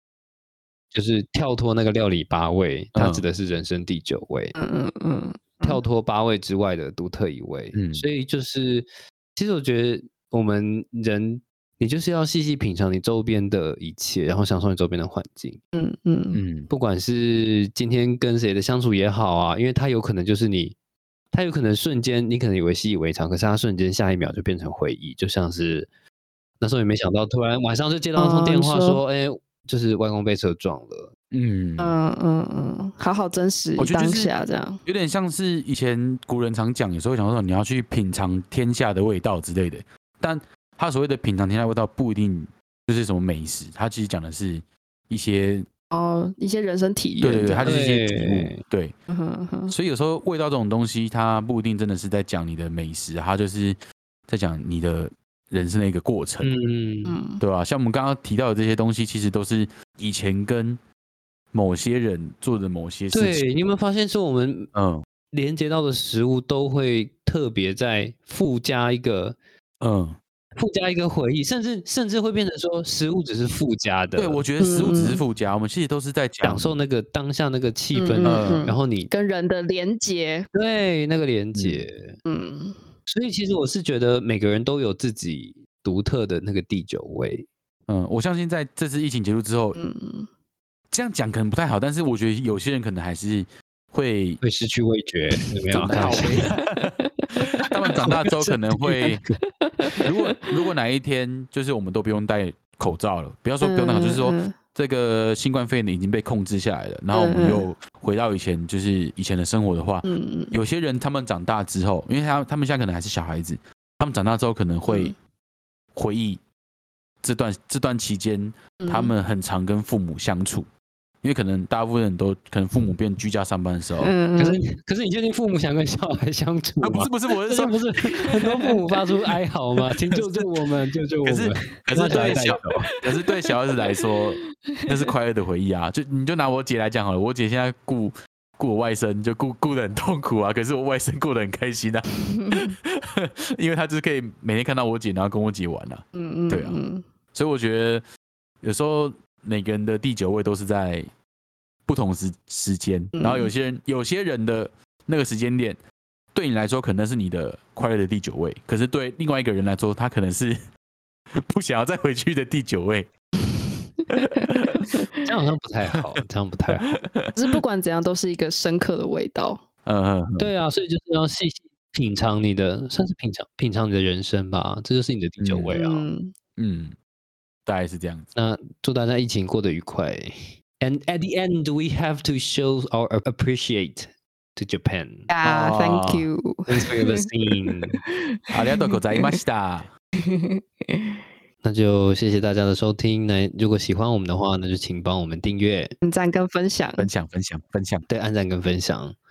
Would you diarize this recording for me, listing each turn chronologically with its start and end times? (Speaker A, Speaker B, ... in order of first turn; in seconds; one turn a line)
Speaker A: 0.9-4.5
Speaker B: 2.9-3.2
Speaker C: 4.5-5.8
Speaker A: 5.6-15.6
Speaker B: 7.7-8.1
Speaker C: 15.7-16.4
Speaker B: 16.3-16.7
Speaker A: 16.7-20.7
Speaker A: 21.3-25.9
Speaker A: 26.6-31.1
Speaker C: 28.2-29.0
Speaker B: 31.3-31.9
Speaker C: 31.8-34.8
Speaker B: 33.8-34.3
Speaker B: 34.9-45.7
Speaker C: 45.9-47.8
Speaker B: 47.2-48.9
Speaker A: 47.6-48.6
Speaker C: 49.1-49.7
Speaker B: 49.7-53.8
Speaker B: 54.3-56.5
Speaker A: 56.4-57.2
Speaker C: 57.0-57.4
Speaker B: 57.4-60.8
Speaker B: 61.5-63.4
Speaker A: 63.1-64.7
Speaker B: 64.7-65.0
Speaker A: 65.3-69.4
Speaker B: 69.8-70.2
Speaker A: 70.6-74.4
Speaker B: 74.2-76.7
Speaker C: 74.6-75.2
Speaker A: 76.4-79.1
Speaker C: 77.9-80.5
Speaker B: 78.2-78.6
Speaker A: 80.5-82.2
Speaker B: 81.5-81.8
Speaker C: 82.2-82.8
Speaker A: 83.1-87.5
Speaker B: 87.9-89.8
Speaker C: 89.7-90.3
Speaker B: 90.9-94.4
Speaker A: 94.4-96.4
Speaker B: 95.7-97.0
Speaker C: 95.8-97.8
Speaker B: 97.7-99.2
Speaker A: 97.9-99.4
Speaker C: 99.6-100.5
Speaker B: 100.0-115.1
Speaker C: 103.6-104.5
Speaker C: 107.1-107.7
Speaker C: 110.0-110.5
Speaker C: 114.9-115.1
Speaker B: 115.9-116.4
Speaker B: 117.2-120.7
Speaker C: 118.8-119.1
Speaker B: 121.2-124.1
Speaker C: 124.0-124.6
Speaker A: 124.4-132.9
Speaker B: 126.8-128.6
Speaker B: 129.9-130.5
Speaker B: 131.2-146.8
Speaker C: 133.1-134.2
Speaker C: 134.7-135.1
Speaker C: 142.3-142.7
Speaker C: 146.1-147.0
Speaker B: 147.3-148.0
Speaker B: 148.6-151.1
Speaker B: 151.8-155.8
Speaker C: 153.1-153.5
Speaker B: 156.3-160.6
Speaker B: 161.4-163.1
Speaker B: 164.1-165.0
Speaker C: 164.4-165.2
Speaker A: 165.2-167.0
Speaker B: 166.8-167.4
Speaker C: 167.3-169.6
Speaker B: 169.8-170.5
Speaker A: 170.4-176.1
Speaker B: 175.4-175.8
Speaker C: 175.7-176.3
Speaker B: 176.6-176.9
Speaker B: 177.7-178.3
Speaker A: 178.3-185.3
Speaker C: 185.3-189.4
Speaker B: 185.4-186.3
Speaker A: 186.7-188.0
Speaker B: 188.5-189.9
Speaker C: 190.2-191.1
Speaker A: 191.6-195.9
Speaker C: 196.0-197.1
Speaker B: 197.0-198.1
Speaker A: 198.1-199.1